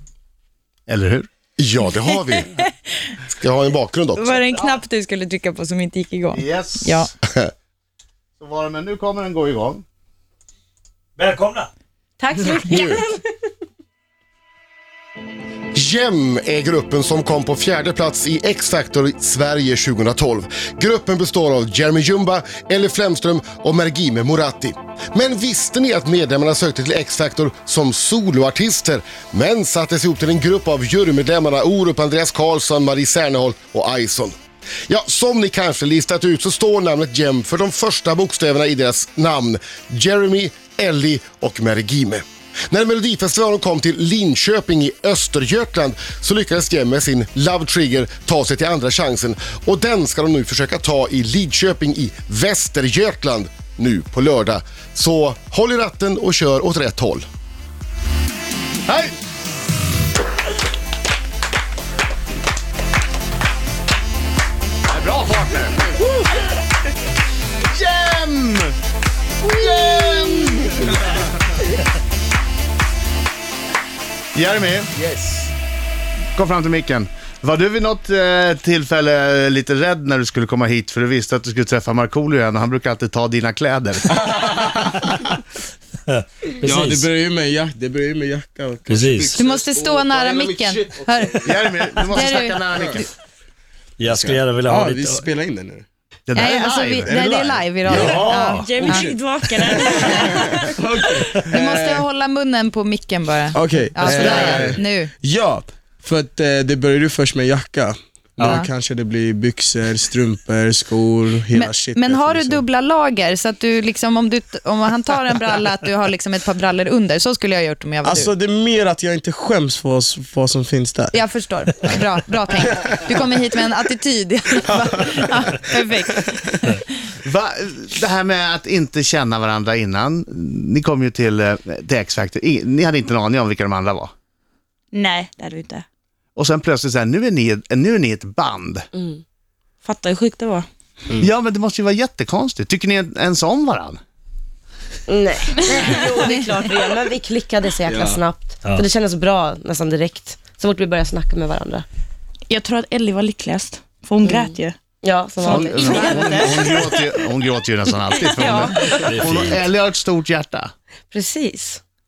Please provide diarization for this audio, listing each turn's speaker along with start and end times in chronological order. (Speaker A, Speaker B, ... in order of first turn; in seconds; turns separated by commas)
Speaker A: 0.9-1.3, Speaker B: 1.6-2.5, Speaker B: 3.4-4.4, Speaker C: 4.2-7.1, Speaker A: 6.3-7.1, Speaker A: 8.4-9.8, Speaker D: 11.2-11.7, Speaker C: 12.2-13.0, Speaker E: 12.3-12.6, Speaker B: 12.6-13.0, Speaker B: 15.8-34.4, Speaker B: 34.9-57.2, Speaker A: 58.9-59.1, Speaker A: 64.9-65.9, Speaker A: 67.7-68.7, Speaker A: 69.4-70.9, Speaker A: 74.3-74.9, Speaker F: 75.0-75.5, Speaker A: 76.3-84.2, Speaker F: 84.2-84.8, Speaker D: 86.1-87.1, Speaker F: 86.6-91.6, Speaker D: 88.9-89.4, Speaker C: 89.3-91.4, Speaker A: 91.4-93.0, Speaker C: 92.1-93.1, Speaker F: 92.2-93.0, Speaker D: 94.0-95.3, Speaker F: 94.0-95.9, Speaker A: 96.3-97.3, Speaker C: 96.3-99.1, Speaker F: 97.0-102.1, Speaker D: 97.8-98.7, Speaker E: 98.6-99.0, Speaker G: 98.8-100.6, Speaker C: 100.0-100.7, Speaker C: 101.5-105.1, Speaker F: 103.5-112.7, Speaker A: 104.1-104.7, Speaker D: 108.4-108.7, Speaker C: 111.5-118.3, Speaker F: 118.0-121.3, Speaker C: 121.1-126.8, Speaker A: 127.2-134.1, Speaker G: 134.9-135.8, Speaker A: 136.3-138.9, Speaker E: 138.9-139.2, Speaker G: 139.8-140.7, Speaker A: 141.2-144.0, Speaker E: 145.1-151.8, Speaker F: 147.9-148.2, Speaker G: 152.5-154.8, Speaker E: 154.2-156.6, Speaker G: 155.4-157.0, Speaker A: 155.5-160.7, Speaker E: 158.4-158.9, Speaker D: 158.9-159.7, Speaker E: 161.1-161.8